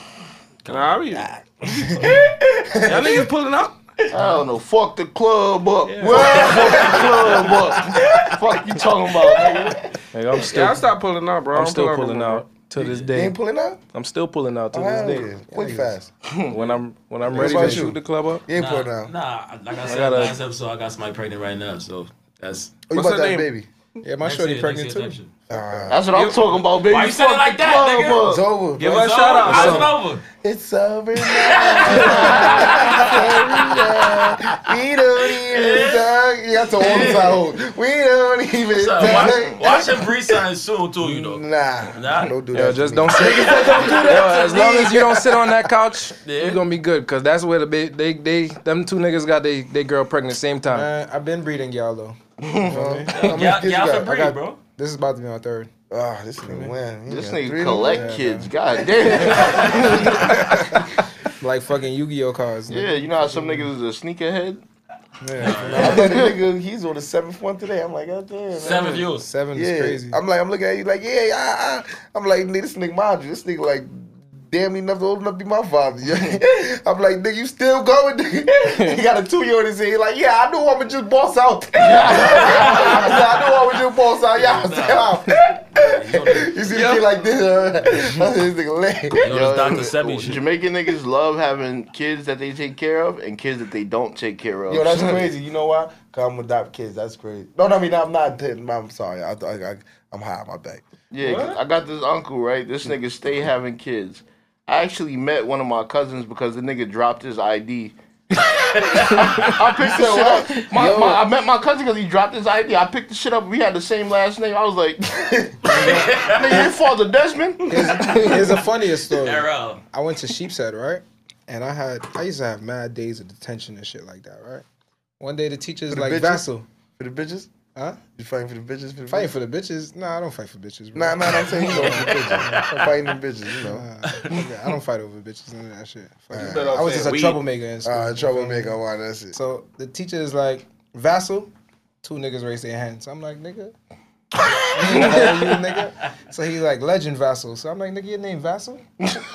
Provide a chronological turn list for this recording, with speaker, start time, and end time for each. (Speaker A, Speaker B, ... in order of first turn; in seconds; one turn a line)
Speaker A: 0.6-0.9
Speaker B: 0.7-1.3
Speaker C: 1.1-3.3
Speaker B: 2.8-3.8
Speaker D: 4.1-9.8
Speaker B: 5.8-7.2
Speaker C: 6.0-8.3
Speaker C: 9.2-9.8
Speaker E: 10.1-10.8
Speaker B: 10.4-12.5
Speaker E: 11.5-13.4
Speaker A: 12.8-13.1
Speaker C: 13.1-13.8
Speaker E: 13.9-15.3
Speaker C: 14.7-16.1
Speaker F: 15.5-15.9
Speaker D: 16.2-16.6
Speaker E: 16.5-18.4
Speaker F: 17.3-17.9
Speaker C: 17.3-19.1
Speaker A: 18.5-22.9
Speaker E: 19.9-20.4
Speaker B: 22.9-23.5
Speaker C: 22.9-23.7
Speaker F: 24.0-25.8
Speaker A: 24.2-25.3
Speaker C: 25.5-26.1
Speaker D: 25.9-28.4
Speaker B: 26.1-26.5
Speaker A: 26.6-30.2
Speaker C: 28.2-40.4
Speaker B: 28.8-29.9
Speaker A: 31.2-34.5
Speaker B: 33.0-33.6
Speaker A: 35.3-36.1
Speaker A: 36.7-37.4
Speaker A: 38.7-42.4
Speaker D: 39.0-39.6
Speaker C: 41.0-45.3
Speaker E: 42.5-50.9
Speaker F: 43.1-44.2
Speaker A: 46.2-46.6
Speaker F: 50.7-53.4
Speaker D: 52.4-52.7
Speaker C: 52.7-54.2
Speaker A: 53.1-54.6
Speaker F: 54.0-55.7
Speaker C: 55.9-58.5
Speaker F: 56.4-56.7
Speaker D: 57.1-60.8
Speaker F: 57.8-59.4
Speaker A: 59.4-59.9
Speaker F: 60.1-63.7
Speaker D: 62.7-64.6
Speaker F: 65.2-66.0
Speaker A: 65.4-66.1
Speaker C: 65.6-89.7
Speaker D: 65.7-66.3
Speaker A: 68.5-69.3
Speaker D: 68.6-69.1
Speaker F: 69.1-70.2
Speaker D: 81.8-83.4
Speaker A: 82.3-83.1
Speaker A: 84.3-86.6
Speaker B: 86.7-87.1
Speaker A: 89.2-90.5
Speaker D: 89.2-95.3
Speaker C: 94.7-100.9
Speaker D: 101.1-107.9
Speaker B: 101.2-101.6
Speaker A: 108.3-109.8
Speaker D: 108.8-115.0
Speaker C: 109.8-110.6
Speaker F: 110.7-111.2
Speaker C: 115.1-115.6
Speaker D: 115.6-118.5
Speaker A: 115.7-116.7
Speaker B: 117.6-118.6
Speaker F: 117.7-124.6
Speaker A: 119.1-119.8
Speaker F: 125.2-126.6
Speaker C: 125.9-126.4
Speaker C: 127.0-127.5
Speaker F: 127.7-128.0
Speaker C: 128.1-129.3
Speaker F: 129.1-138.8
Speaker C: 130.9-133.9
Speaker C: 136.3-136.8
Speaker B: 136.3-137.4
Speaker C: 137.8-139.4
Speaker F: 139.3-143.7
Speaker D: 144.5-145.5
Speaker F: 144.7-148.8